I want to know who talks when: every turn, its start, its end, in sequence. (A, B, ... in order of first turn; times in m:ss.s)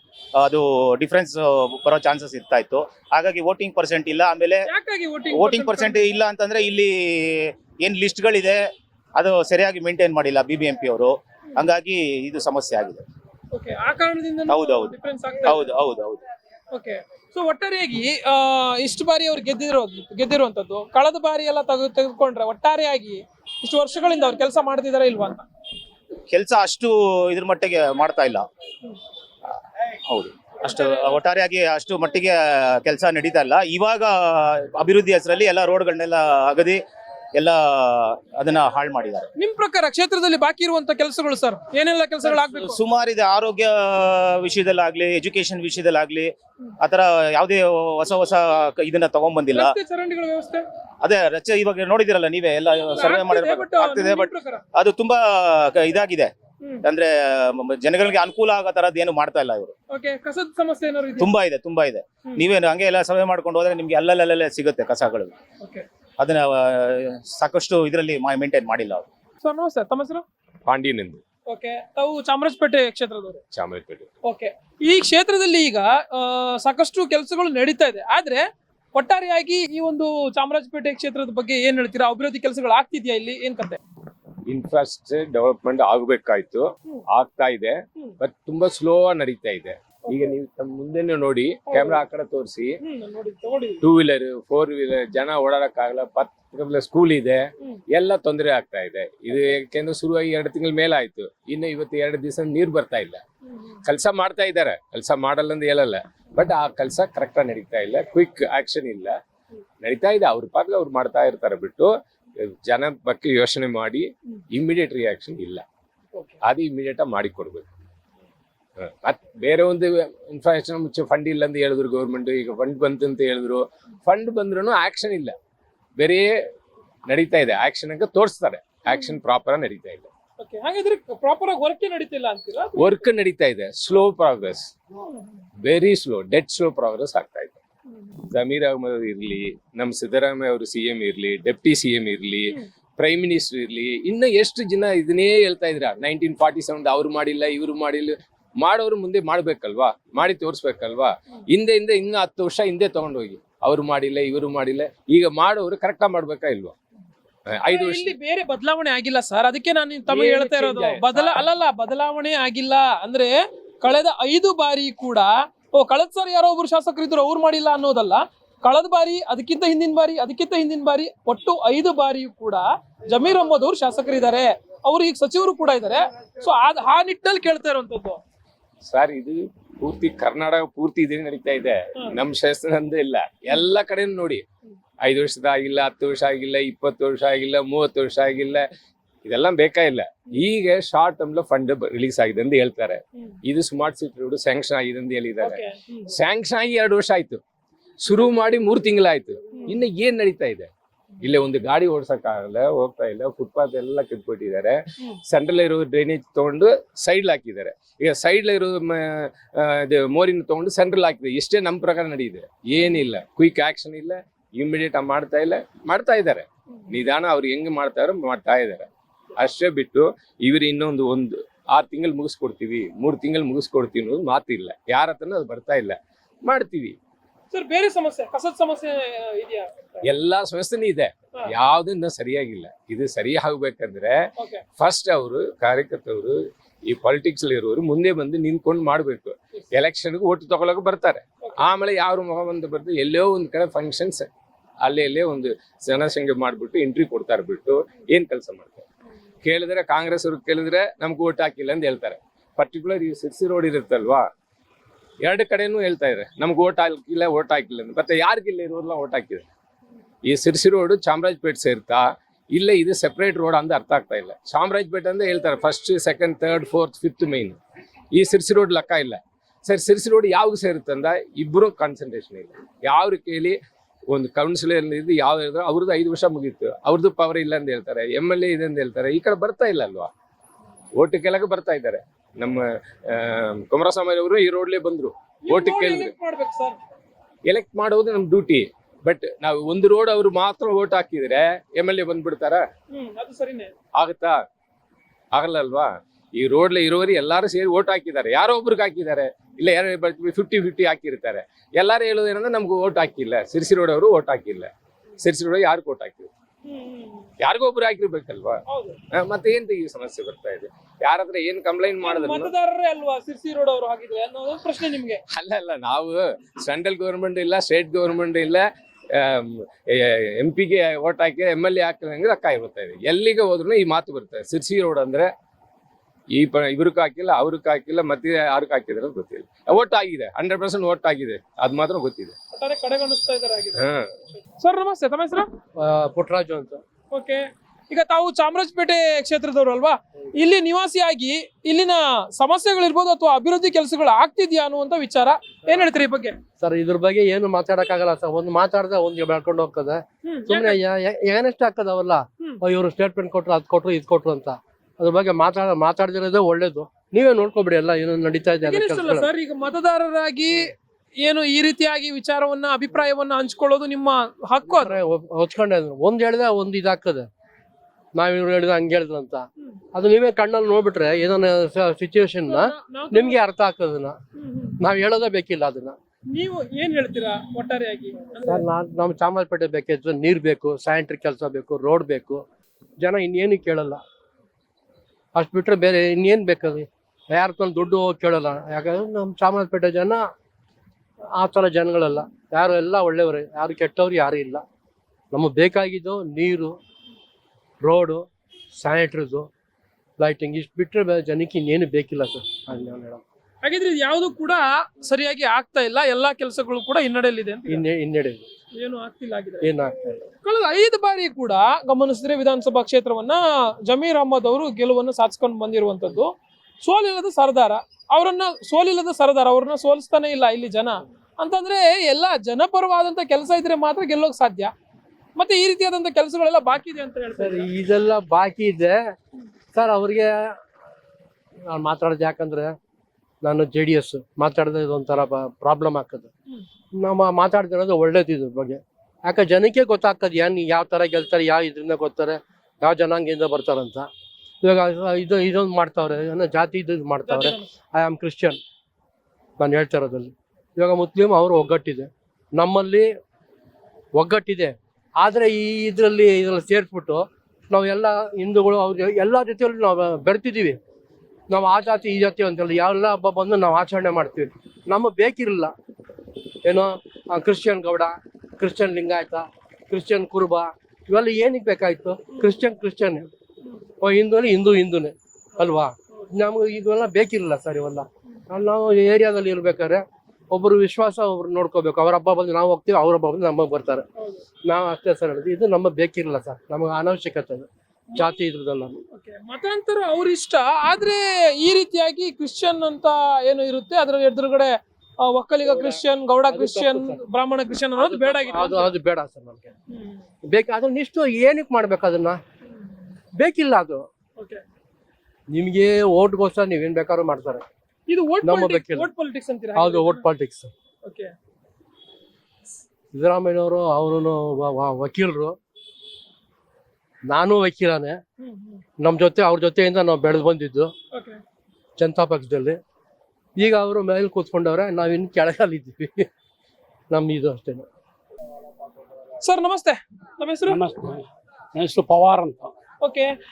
0:00.4-0:04.6 A
0:04.6-0:06.2 B
0:05.3-0:08.6 A
0:09.1-0:13.0 A
0:13.5-0:15.7 B
0:14.5-0:14.9 A
0:15.4-0:16.2 A
0:16.7-0:25.4 B
0:26.3-0:28.4 A
0:30.1-0:36.8 A
0:30.7-0:31.2 B
0:37.3-0:39.3 A
0:39.4-0:42.8 B
0:42.6-0:49.7 A
0:49.5-0:50.6 B
0:51.0-0:56.3 A
0:53.0-0:54.6 B
0:56.8-0:59.7 A
0:59.9-1:01.3 B
1:01.2-1:05.3 A
1:06.2-1:09.0 A
1:09.4-1:10.2 B
1:10.7-1:11.2 C
1:11.5-1:13.4 B
1:13.5-1:14.1 C
1:14.2-1:23.8 B
1:24.5-1:32.7 C
1:31.7-1:32.0 B
1:32.8-1:33.8 B
1:33.8-1:37.4 C
1:37.9-1:43.2 C
1:43.5-1:43.7 B
1:43.8-1:49.1 C
1:49.8-1:51.9 C
1:52.6-1:55.6 C
1:56.4-1:57.6 C
1:58.8-2:05.3 C
2:06.0-2:06.3 C
2:07.1-2:10.1 C
2:10.4-2:13.0 B
2:12.8-2:14.7 C
2:15.6-2:17.5 C
2:17.9-2:18.1 B
2:18.3-2:36.8 C
2:37.5-2:38.1 C
2:37.6-2:58.2 B
2:40.1-2:41.5 C
2:58.8-3:04.4 C
3:05.0-3:08.6 C
3:09.2-3:17.4 C
3:15.4-3:16.1 B
3:18.0-3:20.7 C
3:21.2-3:47.0 C
3:47.5-3:50.1 B
3:50.0-3:54.1 C
3:54.4-3:54.6 B
3:54.8-4:04.3 C
4:04.8-4:08.8 C
4:09.4-4:14.2 C
4:15.2-4:19.4 C
4:20.2-4:27.6 C
4:28.1-4:33.6 C
4:34.1-4:40.1 C
4:41.0-4:46.1 C
4:45.4-4:46.8 B
4:47.5-4:52.6 C
4:52.9-4:53.7 B
4:54.0-4:54.4 C
4:55.3-5:06.3 C
5:06.6-5:07.3 B
5:07.4-5:08.6 C
5:08.7-5:09.0 B
5:09.1-5:12.5 C
5:12.0-5:15.2 B
5:15.4-5:18.6 C
5:19.2-5:25.3 C
5:26.3-5:32.4 C
5:32.5-5:33.8 B
5:34.4-5:35.4 B
5:35.8-5:36.8 D
5:37.1-5:46.4 B
5:46.6-5:59.3 D
5:50.2-5:50.8 B
5:58.6-6:05.0 B
6:04.6-6:07.3 D
6:08.1-6:14.2 D
6:12.5-6:13.4 B
6:14.4-6:14.8 B
6:14.8-6:16.0 D
6:16.3-6:18.6 B
6:18.4-6:22.4 D
6:23.0-6:24.0 D
6:25.3-6:30.3 D
6:31.4-6:34.6 D
6:35.3-6:36.8 D
6:37.8-6:38.2 D
6:38.8-6:39.5 D
6:40.2-6:43.2 D
6:43.6-6:47.8 B
6:47.7-6:48.4 D
6:48.8-6:49.7 B
6:49.6-6:50.2 D
6:50.4-6:56.3 B
6:56.8-7:04.7 B
7:05.4-7:07.7 B
7:07.4-7:09.0 D
7:09.7-7:10.6 D
7:11.7-7:12.7 D
7:13.4-7:16.3 D
7:16.9-7:24.1 D
7:24.6-7:28.6 D
7:27.2-7:27.7 B
7:29.6-7:33.1 D
7:34.1-7:40.8 D
7:41.5-7:45.7 D
7:46.6-7:53.3 D
7:52.3-7:52.6 B
7:54.0-8:04.0 D
8:04.6-8:09.0 D
8:09.1-8:18.9 B
8:15.6-8:17.2 D
8:18.0-8:19.7 D
8:19.9-8:20.2 B
8:20.4-8:22.4 D
8:23.4-8:24.0 D
8:25.5-8:27.6 D
8:28.1-8:30.2 B
8:28.4-8:29.1 D
8:29.7-8:30.7 D
8:31.0-8:31.3 B
8:33.1-8:35.6 D
8:37.3-8:38.2 D
8:38.4-8:38.8 B
8:39.0-8:40.9 D
8:41.1-8:41.4 B
8:42.0-8:42.8 D
8:43.6-8:46.3 D
8:47.1-8:47.8 D
8:49.4-8:50.8 B
8:50.7-8:52.7 E
8:53.0-8:53.3 B